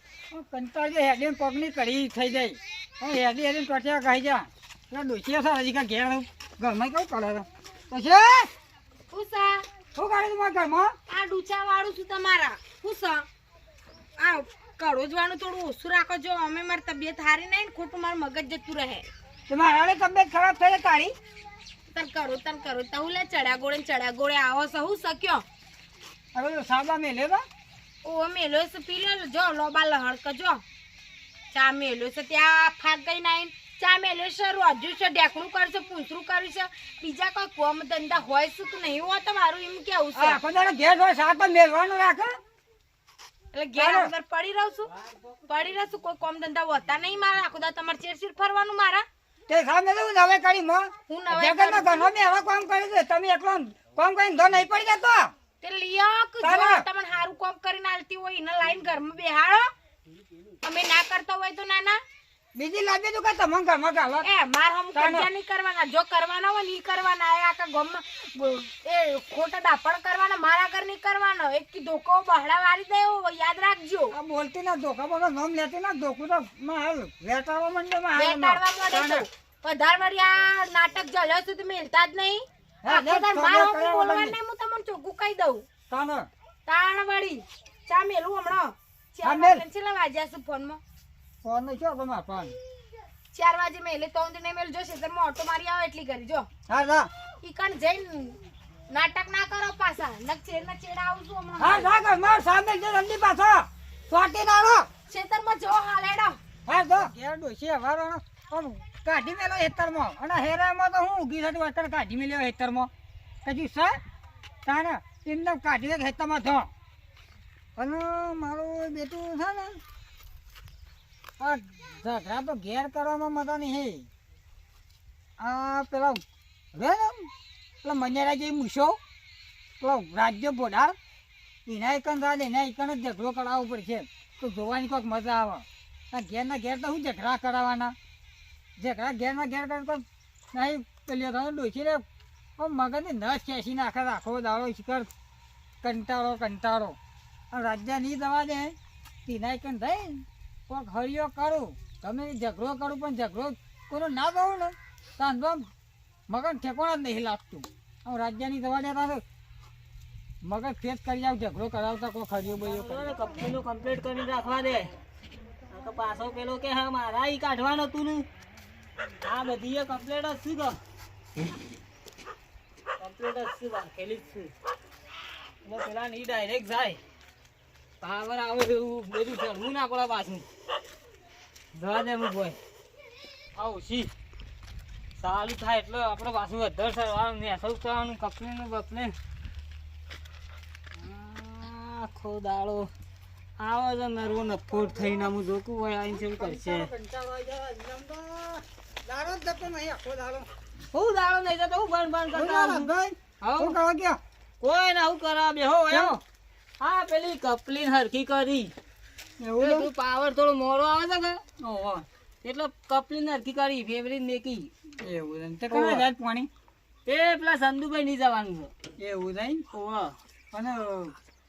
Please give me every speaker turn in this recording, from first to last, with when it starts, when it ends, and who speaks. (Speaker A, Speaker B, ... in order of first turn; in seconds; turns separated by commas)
Speaker A: 0.3-8.5, Speaker B: 9.1-9.6, Speaker A: 9.9-10.9, Speaker B: 11.1-13.3, Speaker B: 14.2-19.1, Speaker A: 19.5-21.1, Speaker B: 21.9-25.4, Speaker A: 26.3-27.4, Speaker B: 28.0-30.6, Speaker B: 31.5-40.4, Speaker A: 40.1-42.3, Speaker B: 43.5-44.9, Speaker A: 43.8-44.1, Speaker B: 45.5-49.1, Speaker A: 49.5-55.3, Speaker B: 51.1-52.1, Speaker B: 55.6-59.7, Speaker A: 56.4-56.8, Speaker B: 60.6-62.0, Speaker A: 62.5-64.3, Speaker B: 64.2-74.1, Speaker A: 65.0-65.3, Speaker A: 74.1-79.3, Speaker B: 78.1-85.7, Speaker A: 82.8-84.4, Speaker A: 85.9-86.3, Speaker B: 86.7-90.8, Speaker A: 89.2-89.6, Speaker A: 91.4-92.6, Speaker B: 93.3-96.5, Speaker A: 96.7-97.1, Speaker B: 97.4-98.4, Speaker B: 98.9-101.9, Speaker A: 101.6-104.9, Speaker B: 105.1-106.4, Speaker A: 106.7-112.9, Speaker A: 113.5-114.0, Speaker A: 114.7-116.7, Speaker A: 117.8-119.8, Speaker A: 121.4-124.1, Speaker A: 125.4-126.2, Speaker A: 126.7-127.3, Speaker A: 127.8-129.0, Speaker A: 129.8-131.0, Speaker A: 131.7-137.9, Speaker A: 138.8-142.0, Speaker A: 142.6-145.1, Speaker A: 145.8-147.0, Speaker A: 147.5-148.7, Speaker A: 149.3-155.7, Speaker A: 156.3-159.2, Speaker A: 160.4-163.2, Speaker C: 162.6-164.9, Speaker C: 165.7-168.2, Speaker C: 169.2-170.8, Speaker C: 173.0-174.5, Speaker C: 175.6-177.0, Speaker C: 178.0-180.5, Speaker C: 181.7-182.6, Speaker C: 183.6-184.1, Speaker C: 185.2-189.1, Speaker C: 191.0-192.9, Speaker C: 193.6-196.9, Speaker A: 194.7-195.3, Speaker A: 196.1-200.5, Speaker C: 200.9-202.9, Speaker A: 202.3-204.2, Speaker C: 203.4-203.8, Speaker C: 204.6-206.2, Speaker A: 205.9-206.2, Speaker C: 206.8-208.7, Speaker A: 209.4-209.9, Speaker C: 209.6-211.4, Speaker A: 211.6-212.1, Speaker C: 212.4-214.7, Speaker A: 215.0-216.5, Speaker C: 215.7-216.1, Speaker C: 217.1-218.7, Speaker A: 219.0-219.7, Speaker C: 219.7-220.2, Speaker A: 220.5-221.2